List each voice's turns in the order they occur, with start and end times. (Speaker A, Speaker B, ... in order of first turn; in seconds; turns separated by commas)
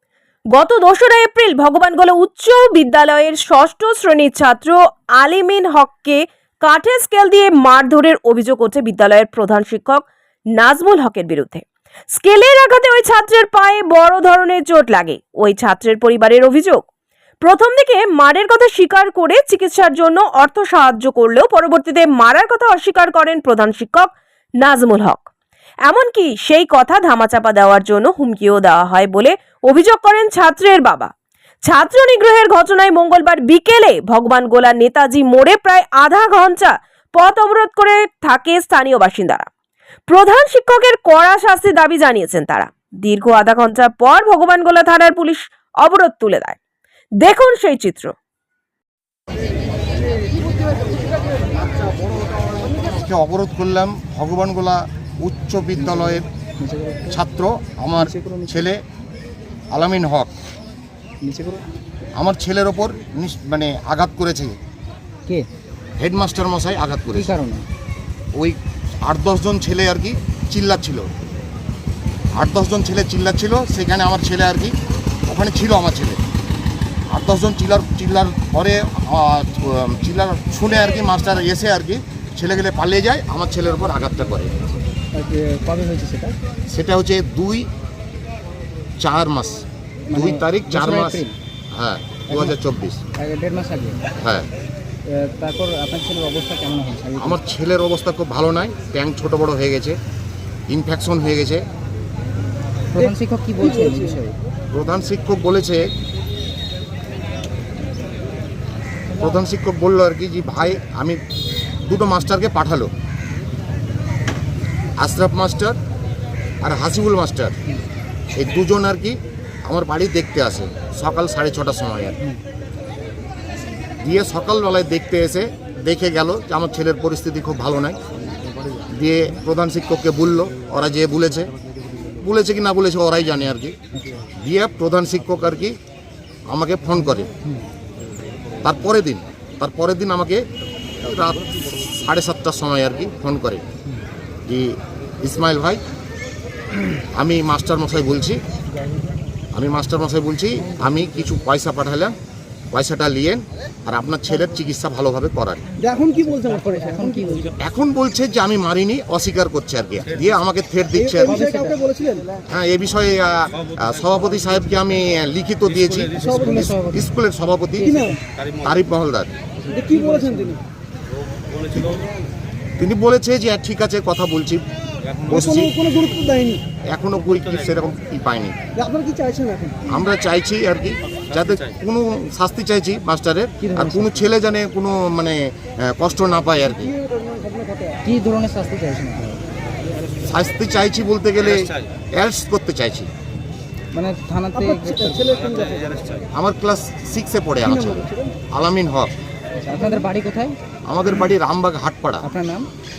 Speaker A: 0.5-16.8, Speaker A: 17.4-25.3, Speaker A: 25.9-31.1, Speaker A: 31.6-39.5, Speaker A: 40.1-46.6, Speaker A: 47.2-48.1, Speaker B: 52.8-56.3, Speaker C: 55.8-57.2, Speaker B: 57.1-58.8, Speaker C: 58.0-58.7, Speaker B: 59.7-60.4, Speaker C: 61.2-61.6, Speaker B: 62.2-64.6, Speaker B: 66.0-67.3, Speaker C: 67.1-67.6, Speaker B: 68.3-71.1, Speaker B: 72.3-74.8, Speaker B: 75.3-76.2, Speaker B: 77.1-84.6, Speaker C: 85.1-86.4, Speaker B: 86.7-87.7, Speaker B: 89.0-93.0, Speaker C: 90.1-91.4, Speaker C: 92.3-92.5, Speaker C: 93.2-94.0, Speaker B: 94.2-94.5, Speaker C: 95.1-97.4, Speaker B: 97.2-100.0, Speaker B: 100.7-101.7, Speaker C: 102.9-104.3, Speaker D: 103.6-104.2, Speaker B: 104.7-105.9, Speaker B: 109.2-111.2, Speaker B: 111.9-112.9, Speaker B: 115.0-115.8, Speaker B: 116.6-117.6, Speaker B: 118.4-122.2, Speaker B: 124.0-128.0, Speaker B: 128.9-131.5, Speaker B: 132.1-133.8, Speaker C: 133.9-134.2, Speaker B: 134.3-135.8, Speaker B: 136.5-137.3, Speaker B: 138.6-140.5, Speaker B: 141.0-143.6, Speaker B: 144.5-145.8, Speaker B: 147.1-148.4, Speaker B: 149.5-152.2, Speaker B: 152.7-155.6, Speaker D: 155.8-157.5, Speaker C: 156.0-157.6, Speaker B: 157.6-161.4, Speaker D: 161.0-162.3, Speaker C: 161.2-161.8, Speaker B: 162.5-168.0, Speaker D: 166.2-166.7, Speaker C: 166.2-167.1, Speaker C: 167.8-168.1, Speaker D: 167.8-168.2, Speaker B: 168.6-169.3, Speaker C: 169.6-170.6, Speaker D: 169.7-170.6, Speaker B: 172.8-175.7, Speaker D: 175.3-176.6, Speaker B: 176.9-178.6, Speaker D: 178.8-179.8, Speaker B: 179.9-186.9, Speaker C: 183.6-184.3, Speaker D: 186.7-188.0, Speaker C: 188.0-189.4, Speaker B: 190.2-193.1, Speaker C: 193.9-195.4, Speaker D: 194.6-196.2, Speaker B: 196.3-199.1, Speaker D: 197.7-198.3, Speaker C: 199.6-200.6, Speaker B: 200.9-202.3, Speaker C: 202.2-202.7